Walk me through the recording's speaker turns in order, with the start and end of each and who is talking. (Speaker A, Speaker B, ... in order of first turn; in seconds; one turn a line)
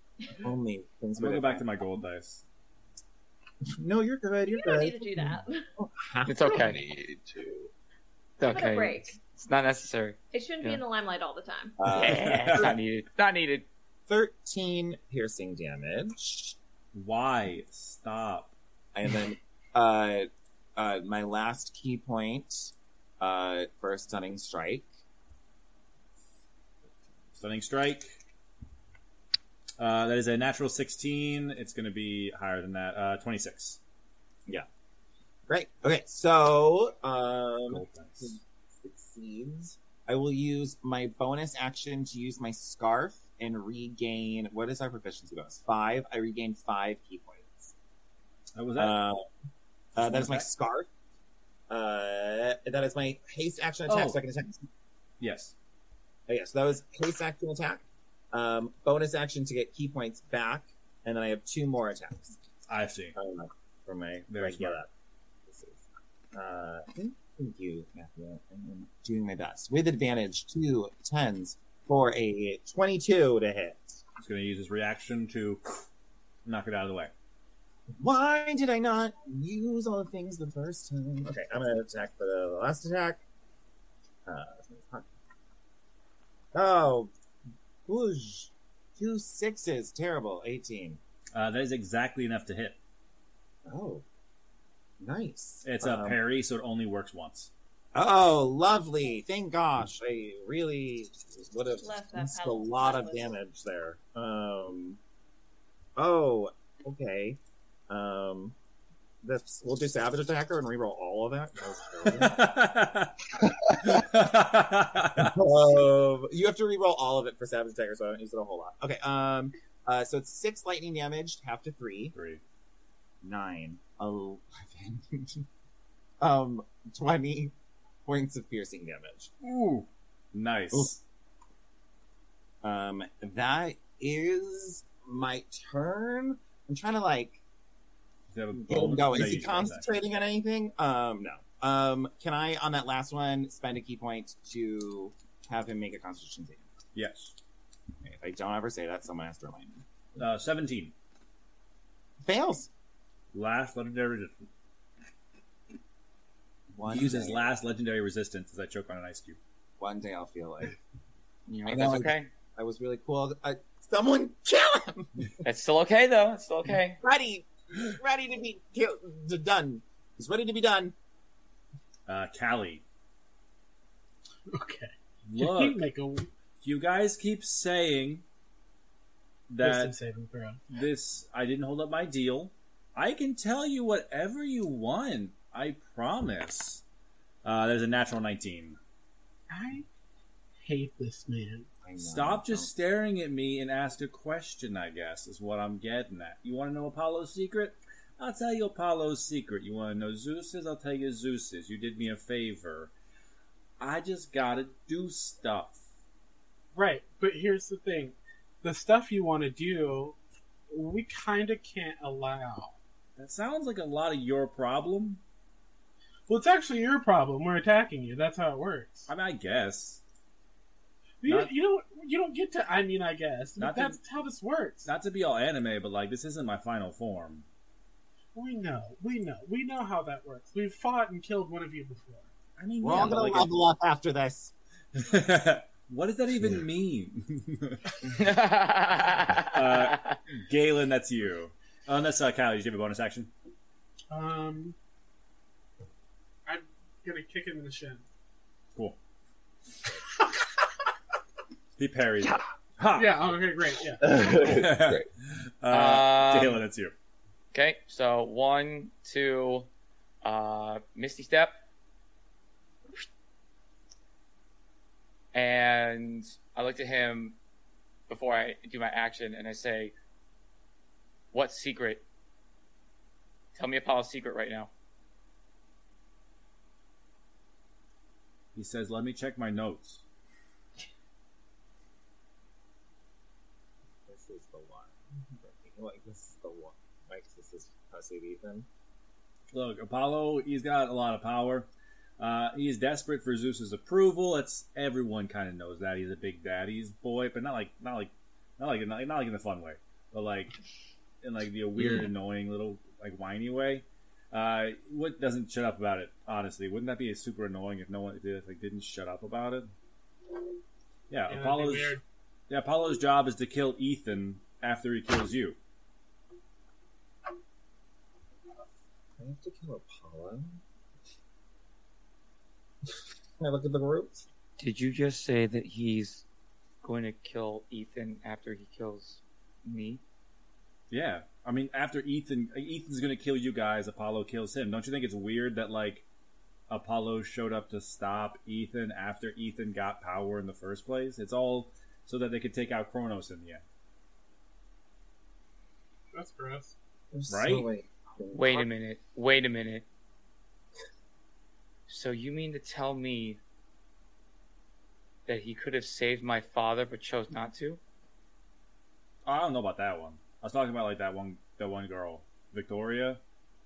Speaker A: 0.3-1.8
Speaker B: 1.1-2.4
Speaker A: 3.7-6.7
Speaker C: 4.5-5.6
Speaker D: 6.2-6.8
Speaker E: 6.5-7.7
Speaker D: 8.4-10.8
Speaker C: 8.5-9.2
Speaker C: 10.3-11.8
Speaker A: 11.8-12.8
Speaker D: 11.9-13.7
Speaker B: 12.0-12.7
Speaker A: 14.1-16.6
Speaker B: 16.9-18.5
Speaker A: 18.9-24.9
Speaker B: 27.4-28.1
Speaker B: 29.8-33.8
Speaker A: 35.5-47.7
Speaker B: 37.7-38.4
Speaker B: 48.5-49.0
Speaker A: 48.8-49.2
Speaker A: 49.9-50.9
Speaker B: 50.0-50.5
Speaker A: 51.7-54.7
Speaker B: 53.9-54.2
Speaker B: 55.2-55.5
Speaker A: 56.3-62.4
Speaker B: 62.7-63.2
Speaker A: 63.1-64.9
Speaker B: 64.3-64.8
Speaker A: 65.5-74.0
Speaker B: 74.2-75.9
Speaker B: 76.4-77.1
Speaker A: 78.0-83.2
Speaker A: 84.2-85.1
Speaker A: 86.5-87.1
Speaker A: 87.8-91.0
Speaker B: 91.3-92.8
Speaker A: 93.7-94.0
Speaker A: 95.0-96.2
Speaker B: 95.6-97.5
Speaker A: 97.9-105.0
Speaker C: 101.8-103.3
Speaker A: 106.0-108.5
Speaker A: 109.2-112.5
Speaker B: 112.2-115.5
Speaker A: 115.2-122.1
Speaker B: 122.1-122.4
Speaker A: 123.2-125.5
Speaker A: 126.2-127.5
Speaker A: 128.0-129.3
Speaker B: 129.4-131.0
Speaker A: 132.6-137.4
Speaker B: 138.3-139.9
Speaker A: 138.5-146.7
Speaker B: 146.9-147.3
Speaker A: 148.0-149.8
Speaker B: 150.2-150.9
Speaker A: 152.2-152.7
Speaker B: 153.3-154.4
Speaker A: 156.7-157.4
Speaker B: 156.9-159.4
Speaker A: 159.8-160.8
Speaker A: 161.5-165.2
Speaker D: 161.6-162.3
Speaker D: 165.4-167.0
Speaker A: 167.0-170.9
Speaker B: 172.1-172.8
Speaker F: 174.5-176.3
Speaker B: 175.2-175.8
Speaker B: 176.6-178.2
Speaker B: 179.5-179.9
Speaker F: 179.6-180.6
Speaker B: 180.7-186.8
Speaker B: 187.4-188.8
Speaker F: 189.5-189.9
Speaker F: 190.6-191.7
Speaker A: 191.8-192.7
Speaker B: 192.0-202.9
Speaker B: 203.8-205.8
Speaker F: 206.7-210.2
Speaker F: 210.7-212.7
Speaker B: 213.2-215.2
Speaker F: 216.3-219.1
Speaker B: 219.1-220.0
Speaker F: 221.2-224.9
Speaker B: 221.2-221.5
Speaker B: 223.6-224.0
Speaker B: 224.8-227.4
Speaker F: 228.3-232.3
Speaker B: 232.6-233.6
Speaker A: 232.8-234.5
Speaker B: 234.9-237.9
Speaker D: 238.1-240.2
Speaker B: 239.4-243.3
Speaker F: 244.1-244.8
Speaker F: 246.4-248.0
Speaker B: 251.8-253.1
Speaker F: 252.9-254.2
Speaker E: 254.0-255.1
Speaker B: 254.2-256.9
Speaker D: 255.7-256.6
Speaker D: 257.5-259.7
Speaker D: 260.2-261.5
Speaker D: 265.3-267.4
Speaker D: 268.1-269.9
Speaker D: 271.3-272.0
Speaker D: 273.5-274.7
Speaker B: 278.5-280.0
Speaker A: 284.1-288.7
Speaker B: 289.5-300.5
Speaker B: 301.2-309.7
Speaker B: 311.1-315.6
Speaker F: 311.3-312.0
Speaker A: 319.2-320.6
Speaker A: 323.4-324.2
Speaker D: 324.6-326.2
Speaker D: 326.8-330.0
Speaker B: 330.9-336.0
Speaker B: 336.7-343.6
Speaker F: 346.1-346.7
Speaker A: 347.1-348.7
Speaker B: 347.3-347.7
Speaker D: 348.3-349.8
Speaker D: 351.9-353.4
Speaker D: 355.3-357.8
Speaker B: 359.2-363.2